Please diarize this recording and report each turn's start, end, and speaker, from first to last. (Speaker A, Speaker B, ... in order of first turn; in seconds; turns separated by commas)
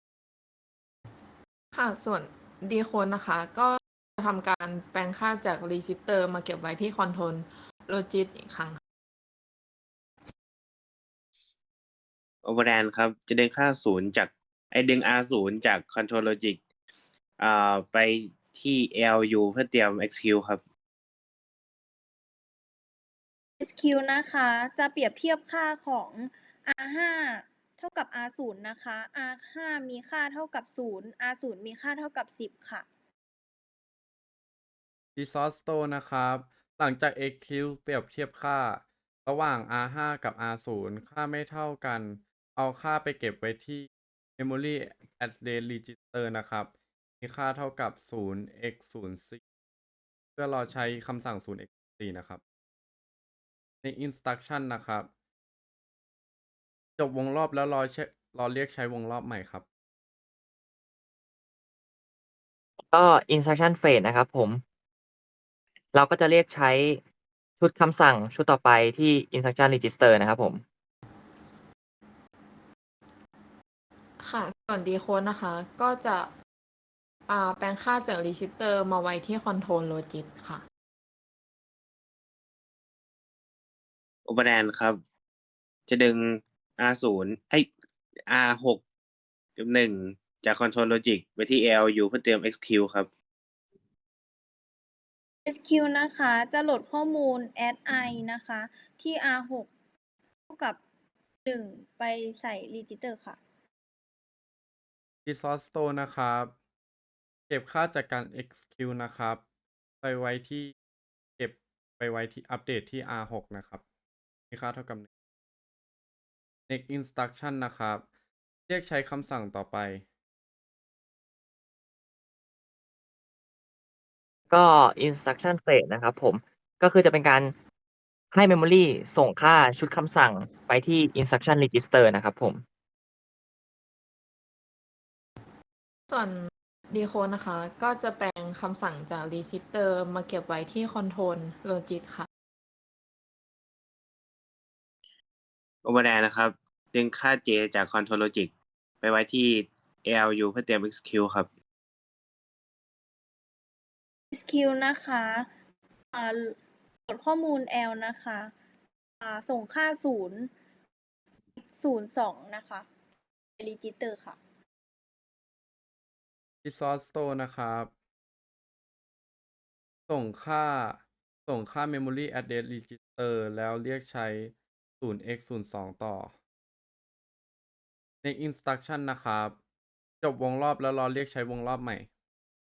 Speaker A: 1.7-8.8, Speaker B: 12.4-16.6, Speaker B: 17.4-20.6, Speaker C: 23.6-32.9, Speaker D: 35.1-49.4, Speaker D: 50.4-52.4, Speaker D: 53.8-55.1, Speaker D: 57.0-59.6, Speaker E: 62.9-64.6, Speaker E: 65.9-67.0, Speaker E: 67.6-70.6, Speaker A: 74.2-76.3, Speaker A: 77.3-80.6, Speaker B: 84.2-85.0, Speaker B: 85.9-87.7, Speaker B: 88.3-88.8, Speaker B: 89.6-93.1, Speaker C: 95.5-99.7, Speaker C: 100.5-100.8, Speaker C: 101.4-103.4, Speaker D: 105.2-106.5, Speaker D: 107.5-109.4, Speaker D: 110.0-110.7, Speaker D: 111.4-113.8, Speaker D: 114.5-115.1, Speaker D: 116.7-118.0, Speaker D: 118.7-120.0, Speaker E: 124.5-127.5, Speaker E: 128.3-132.6, Speaker A: 136.1-142.3, Speaker B: 145.8-151.5, Speaker C: 154.3-155.5, Speaker C: 156.1-156.6, Speaker C: 157.1-158.5, Speaker C: 159.2-160.5, Speaker C: 161.6-162.8, Speaker C: 163.6-164.4, Speaker D: 166.6-167.9, Speaker D: 170.1-176.3, Speaker D: 178.2-179.6, Speaker D: 180.2-182.1